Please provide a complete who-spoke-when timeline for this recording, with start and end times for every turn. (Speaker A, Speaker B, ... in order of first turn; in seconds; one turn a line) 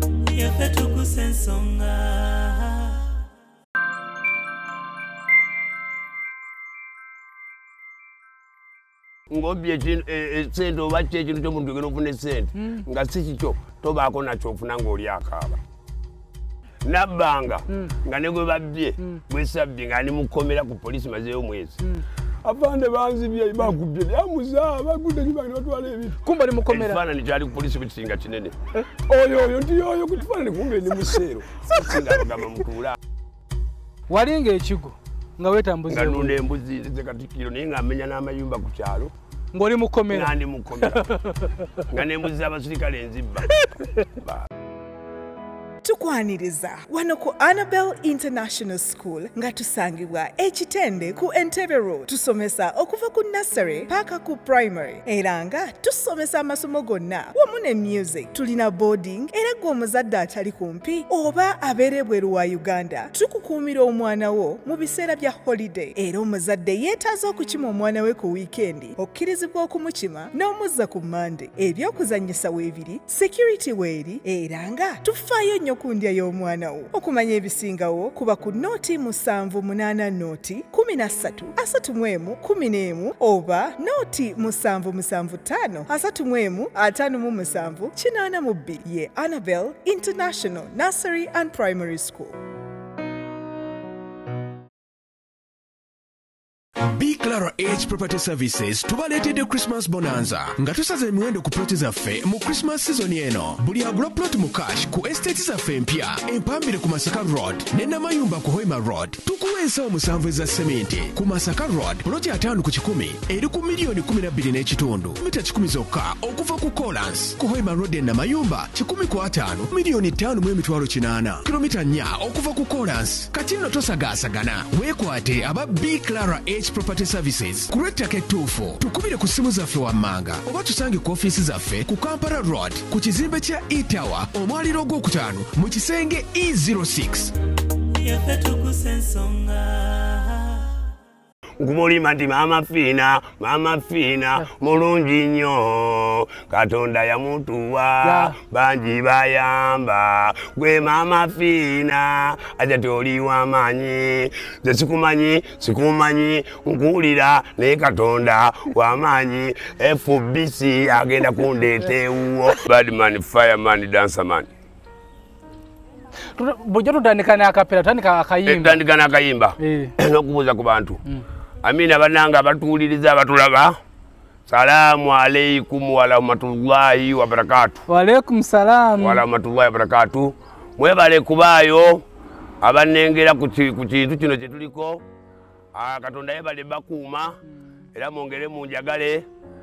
Speaker A: 0.3-3.0
Speaker B: 9.3-15.6
Speaker C: 12.6-12.8
Speaker B: 16.8-21.8
Speaker B: 22.4-33.0
Speaker C: 26.2-27.0
Speaker C: 34.1-36.4
Speaker B: 35.9-39.1
Speaker C: 39.5-40.4
Speaker B: 40.1-41.1
Speaker C: 41.0-41.9
Speaker B: 41.9-43.6
Speaker C: 43.5-44.0
Speaker B: 44.2-44.5
Speaker D: 45.8-92.4
Speaker E: 96.8-137.3
Speaker A: 137.9-140.7
Speaker B: 141.6-164.5
Speaker C: 148.0-148.4
Speaker C: 166.3-168.8
Speaker B: 168.4-171.0
Speaker C: 169.6-169.9
Speaker B: 171.6-173.8
Speaker B: 174.5-177.8
Speaker C: 177.9-179.2
Speaker B: 179.0-182.1
Speaker B: 182.6-185.1
Speaker B: 185.7-187.4
Speaker B: 187.9-189.3